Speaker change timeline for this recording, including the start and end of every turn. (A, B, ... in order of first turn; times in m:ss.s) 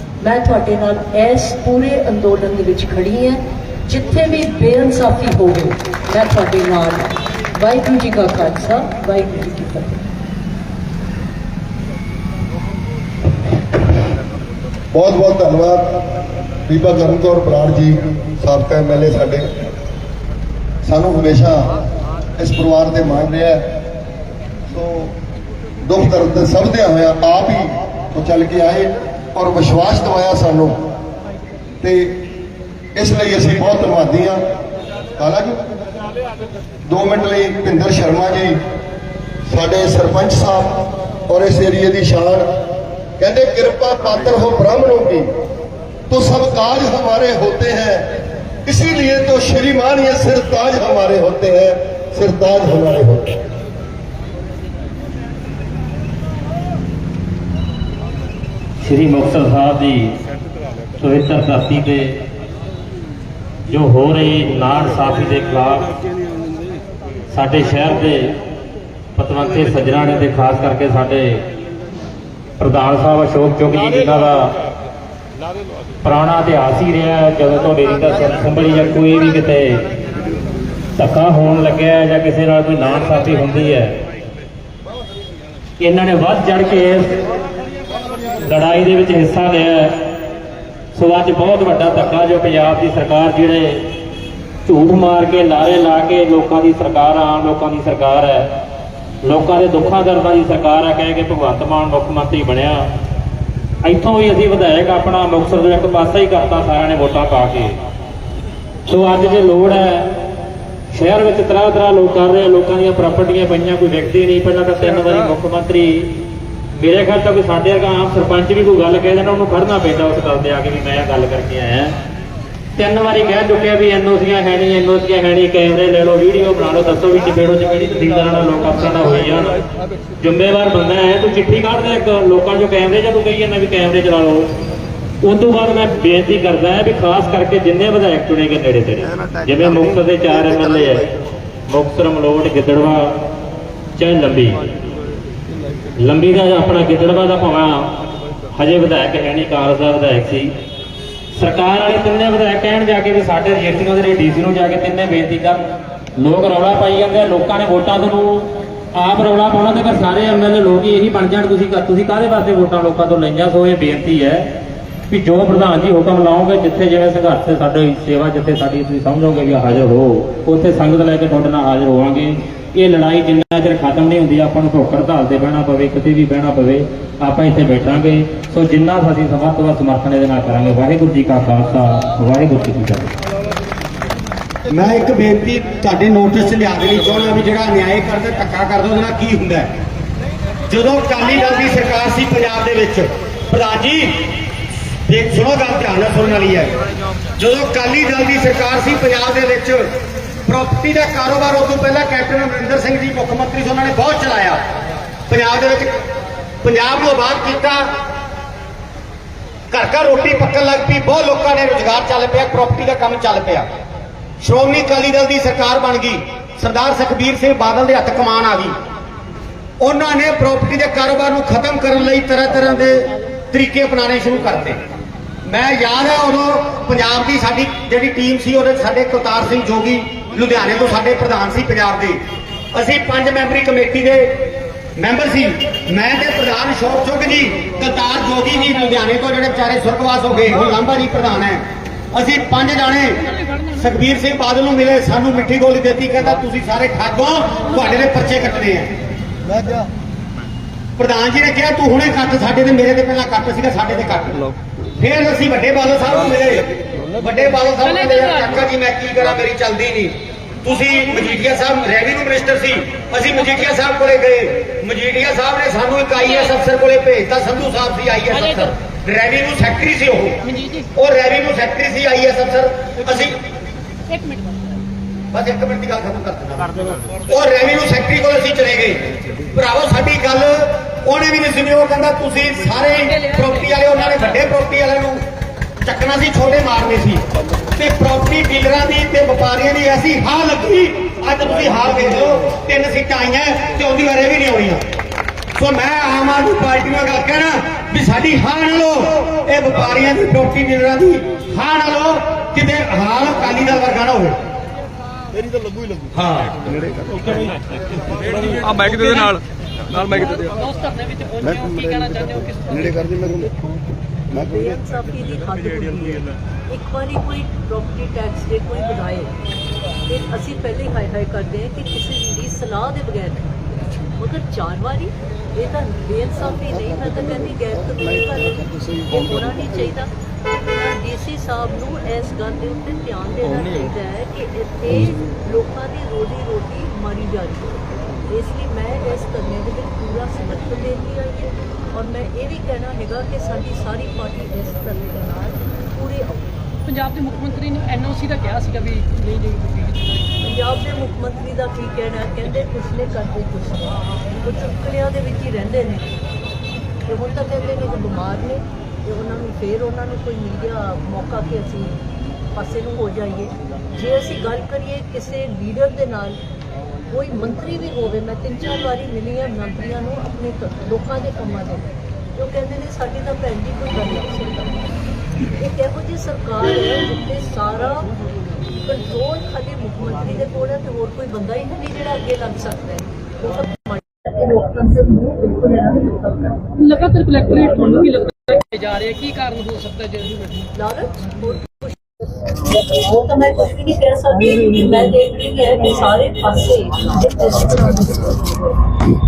0:00.2-0:10.0 A
0:14.9-0:16.0 B
0:16.7-0:19.5 B
0:20.8-0:21.7 B
0:22.4-0:23.7 B
0:24.7-0:25.1 B
0:25.8-0:30.8 B
0:31.8-0:32.2 B
0:33.0-0:34.4 B
0:35.2-0:35.6 B
0:36.9-0:38.6 B
0:39.5-0:42.5 B
0:43.2-0:45.3 B
0:46.1-0:48.1 B
0:48.6-0:53.4 B
0:58.8-1:00.2 C
1:01.0-1:02.2 C
1:03.7-1:05.9 C
1:07.3-1:08.4 C
1:09.2-1:11.4 C
1:12.6-1:14.5 C
1:16.0-1:19.8 C
1:21.0-1:24.0 C
1:25.8-1:27.2 C
1:28.4-1:30.1 C
1:30.9-1:33.9 C
1:34.6-1:38.5 C
1:39.2-1:42.9 C
1:43.8-1:47.8 C
1:48.9-1:50.1 C
1:50.9-1:56.1 C
1:56.8-2:01.9 C
2:02.8-2:09.6 C
2:10.2-2:14.5 C
2:15.2-2:21.1 C
2:21.7-2:23.2 C
2:24.0-2:24.6 C
2:26.0-2:28.0 C
2:28.5-2:30.5 C
2:31.4-2:35.6 C
2:36.2-2:44.5 C
2:45.1-3:03.1 C
3:04.7-3:09.7 D
3:10.7-3:14.3 D
3:15.1-3:16.7 D
3:17.4-3:19.8 D
3:20.5-3:24.6 D
3:25.3-3:25.9 D
3:26.6-3:27.8 D
3:29.7-3:33.6 D
3:34.4-3:38.7 D
3:39.8-3:44.8 D
3:45.4-3:52.2 D
3:52.7-3:54.4 D
3:55.0-4:08.9 D
4:09.5-4:09.8 B
4:11.0-4:30.4 D
4:28.3-4:28.7 E
4:30.4-4:30.8 E
4:30.9-4:33.4 D
4:34.1-4:34.6 E
4:35.3-4:45.2 D
4:43.1-4:43.5 E
4:45.8-4:47.2 D
4:47.8-4:54.8 D
4:55.6-5:04.4 D
5:06.1-5:06.6 D
5:08.5-5:10.5 F
5:10.4-5:13.0 E
5:14.3-5:19.3 A
5:20.0-5:23.5 A
5:24.2-5:30.1 A
5:30.7-5:46.4 A
5:46.9-5:50.1 E
5:50.4-5:56.1 A
5:57.1-6:06.4 A
6:07.1-6:14.9 A
6:15.5-6:18.1 A
6:18.7-6:26.5 A
6:26.8-6:30.5 E
6:30.7-6:32.0 A
6:32.7-6:38.4 A